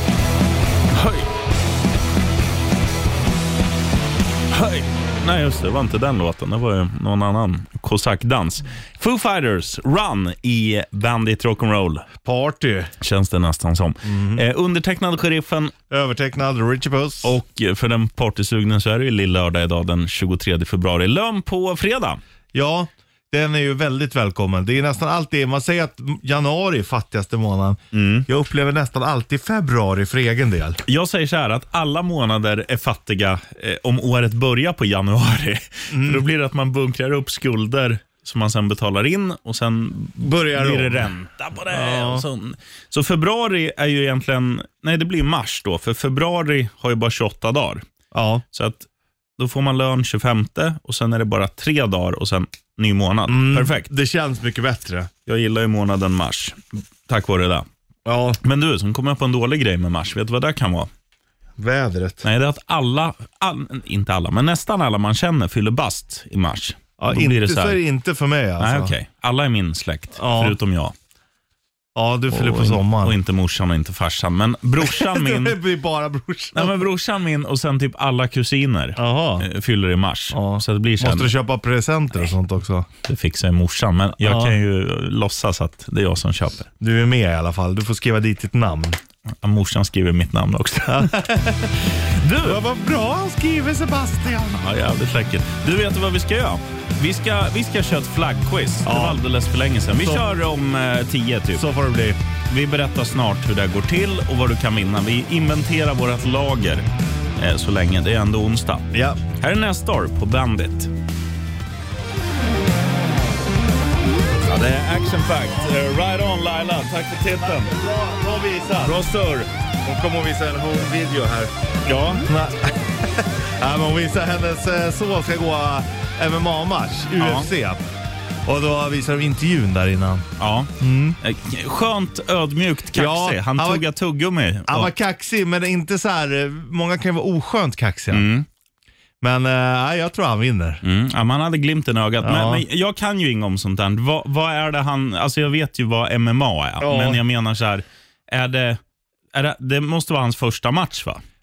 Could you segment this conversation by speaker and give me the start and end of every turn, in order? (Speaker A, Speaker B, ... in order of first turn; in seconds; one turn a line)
Speaker A: 0.9-1.3
Speaker A: 4.5-12.1
Speaker B: 12.2-12.9
Speaker A: 13.0-15.7
Speaker B: 14.0-14.4
Speaker B: 15.9-17.3
Speaker A: 17.2-22.2
Speaker B: 22.5-30.8
Speaker A: 27.9-28.2
Speaker A: 30.9-47.8
Speaker B: 35.9-36.2
Speaker B: 40.2-41.1
Speaker B: 41.7-42.2
Speaker B: 48.1-48.4
Speaker A: 48.5-53.9
Speaker B: 53.3-55.1
Speaker A: 55.3-57.7
Speaker B: 58.0-58.4
Speaker A: 58.4-60.9
Speaker B: 61.6-62.3
Speaker A: 62.2-67.8
Speaker B: 67.0-68.9
Speaker A: 68.6-70.9
Speaker B: 70.2-70.6
Speaker B: 72.0-73.2
Speaker A: 72.3-75.6
Speaker B: 74.8-76.8
Speaker A: 76.5-81.3
Speaker B: 79.0-79.5
Speaker B: 80.3-82.9
Speaker A: 83.0-86.7
Speaker B: 84.2-84.5
Speaker B: 86.8-89.0
Speaker A: 89.4-91.1
Speaker B: 90.9-91.8
Speaker A: 92.1-92.6
Speaker B: 92.4-94.6
Speaker A: 94.5-101.6
Speaker B: 98.8-99.2
Speaker B: 100.0-100.3
Speaker B: 101.5-102.2
Speaker A: 102.5-106.9
Speaker A: 107.4-110.9
Speaker B: 108.9-109.2
Speaker A: 114.4-117.7
Speaker B: 117.4-119.0
Speaker A: 118.8-119.5
Speaker B: 119.8-121.5
Speaker A: 121.9-122.3
Speaker B: 122.2-127.8
Speaker A: 127.2-127.5
Speaker B: 128.4-130.3
Speaker A: 130.4-134.9
Speaker B: 130.8-131.2
Speaker B: 132.9-133.9
Speaker B: 134.7-138.3
Speaker A: 138.1-138.4
Speaker B: 139.2-140.8
Speaker A: 140.8-148.8
Speaker B: 142.2-142.6
Speaker B: 146.8-147.2
Speaker A: 149.3-151.2